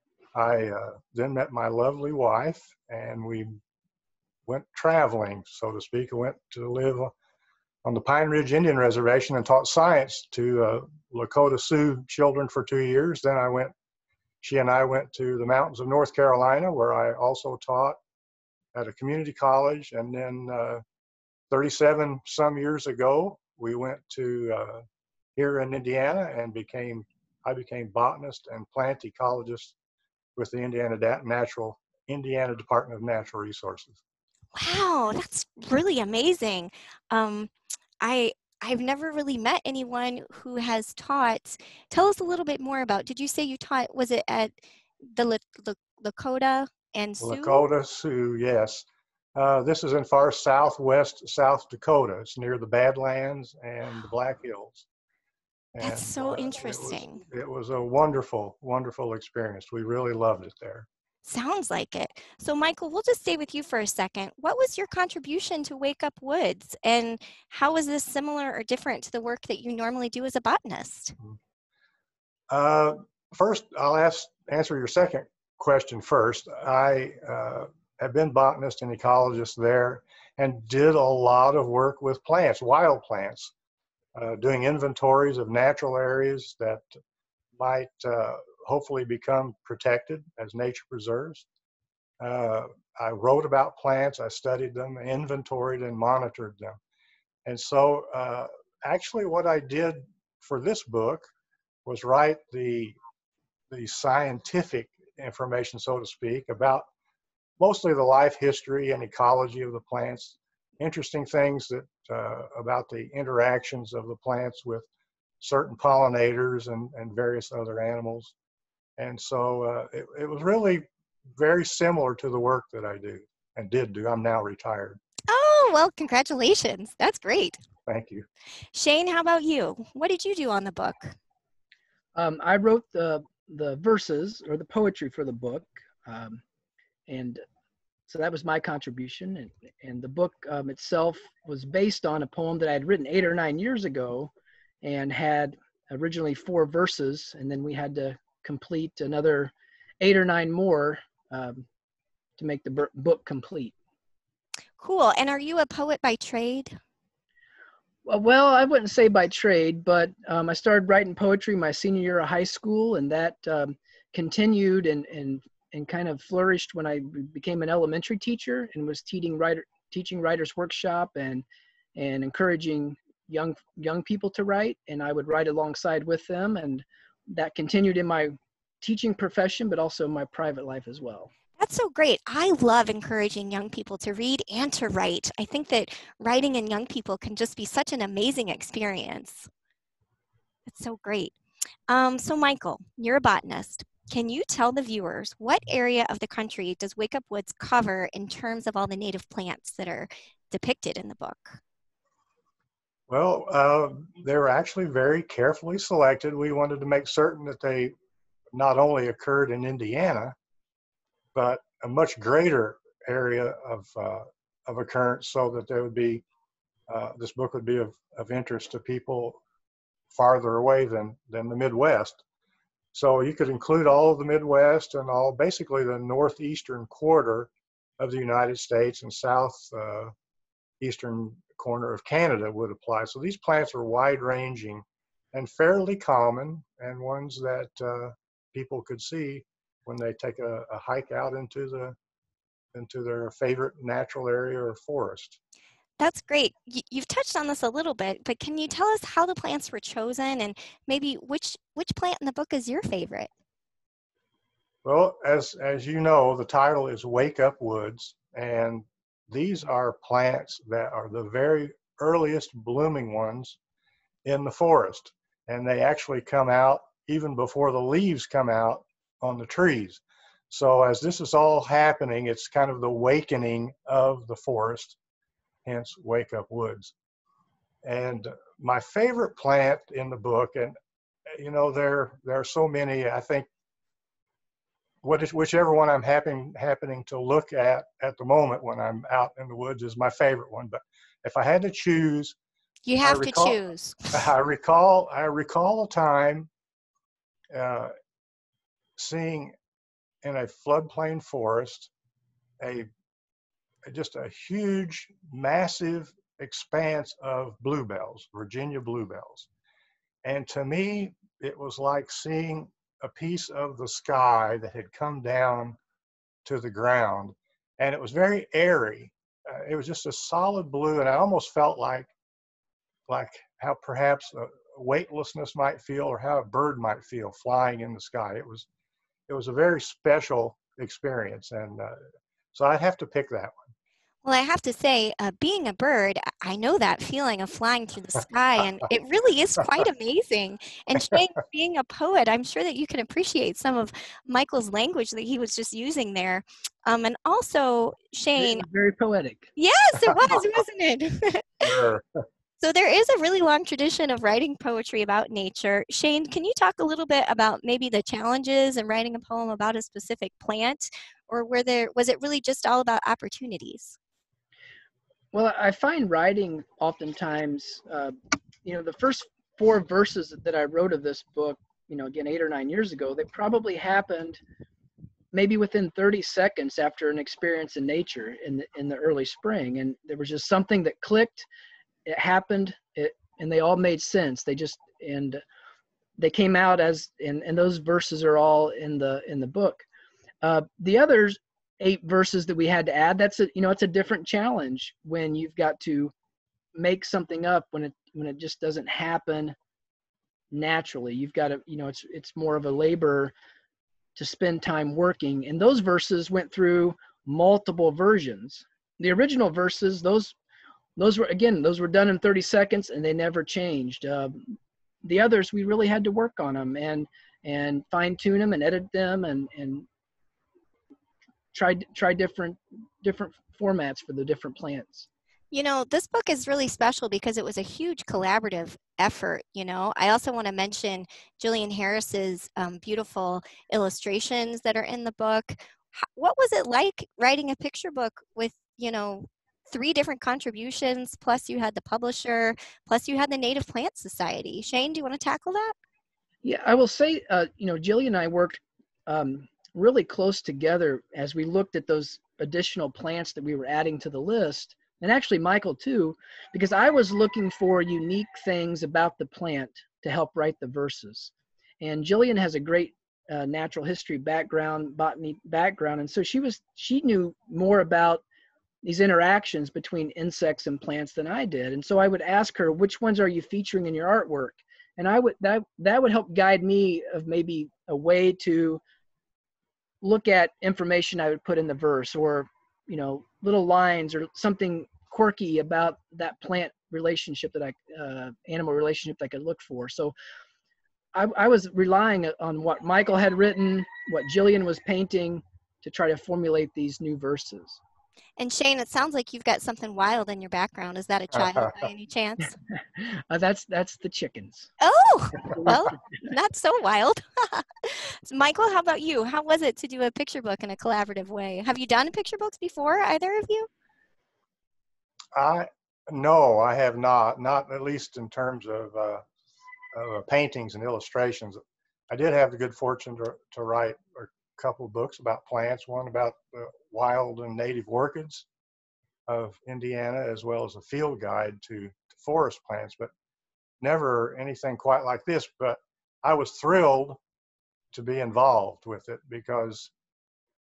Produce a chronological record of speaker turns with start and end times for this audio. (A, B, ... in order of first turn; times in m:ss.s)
0:00.3-0:03.5 A
0:04.4-0:07.1 A
0:07.8-0:13.7 A
0:14.4-0:18.0 A
0:18.7-0:20.8 A
0:21.5-0:24.8 A
0:25.4-0:29.7 A
0:30.4-0:34.0 A
0:34.5-0:44.6 B
0:45.1-0:47.7 B
0:47.2-0:54.8 A
0:55.7-1:00.9 A
0:55.8-0:57.2 B
1:01.2-1:11.1 B
1:12.5-1:23.5 A
1:24.2-1:26.8 A
1:27.6-1:31.4 A
1:32.2-1:36.8 A
1:37.4-1:41.3 A
1:41.8-1:42.9 A
1:43.7-1:46.9 A
1:47.6-1:54.9 A
1:55.4-1:58.3 A
1:59.0-2:05.0 A
2:05.3-2:07.6 B
2:07.9-2:08.2 A
2:08.7-2:11.1 B
2:12.2-2:16.4 C
2:17.1-2:17.4 C
2:18.1-2:24.3 C
2:24.8-2:31.6 C
2:32.4-2:33.7 C
2:34.8-2:36.8 B
2:38.0-3:01.3 C
3:01.6-3:09.5 B
3:10.6-3:11.3 B
3:11.9-3:21.6 B
3:23.1-3:27.9 A
3:28.5-3:30.3 A
3:31.3-3:36.2 A
3:36.9-3:39.4 A
3:40.1-3:42.2 A
3:42.9-3:50.1 A
3:50.8-4:01.9 A
4:02.7-4:05.4 A
4:06.0-4:13.3 B
4:14.8-4:23.6 A
4:24.2-4:35.0 A
4:35.6-4:36.9 A
4:37.8-4:40.7 A
4:41.4-4:43.5 A
4:45.0-4:52.4 A
4:52.8-4:54.1 B
4:53.0-4:53.6 A
4:54.1-4:56.5 A
4:57.5-4:57.9 A
4:59.0-4:59.5 A
5:00.2-5:01.9 A
5:02.6-5:02.9 A
5:03.8-5:09.5 A
5:10.2-5:15.8 A
5:16.4-5:22.1 A
5:23.1-5:28.7 A
5:29.3-5:32.0 A
5:32.5-5:33.7 A
5:34.2-5:48.6 B
5:48.4-5:49.5 C
5:49.6-5:51.6 B
5:50.1-5:50.4 A
5:51.6-5:52.2 A
5:52.6-6:04.0 B
6:05.3-6:14.4 C
6:15.3-6:21.5 C
6:22.0-6:25.4 C
6:26.2-6:29.8 C
6:30.4-6:36.1 C
6:36.8-6:39.6 C
6:40.5-6:43.3 C
6:44.2-6:50.3 C
6:51.0-6:59.8 C
7:01.5-7:05.1 C
7:05.5-7:25.7 B
7:26.4-7:48.2 C
7:48.8-7:58.8 C
8:00.0-8:10.1 C
8:11.1-8:17.8 C
8:18.4-8:22.6 B
8:23.0-8:24.7 C
8:24.8-8:33.7 B
8:25.5-8:25.9 C
8:35.3-8:39.2 A
8:39.9-8:41.6 A
8:42.1-8:48.4 A
8:49.3-8:53.1 A
8:53.8-8:57.2 A
8:57.9-8:59.9 A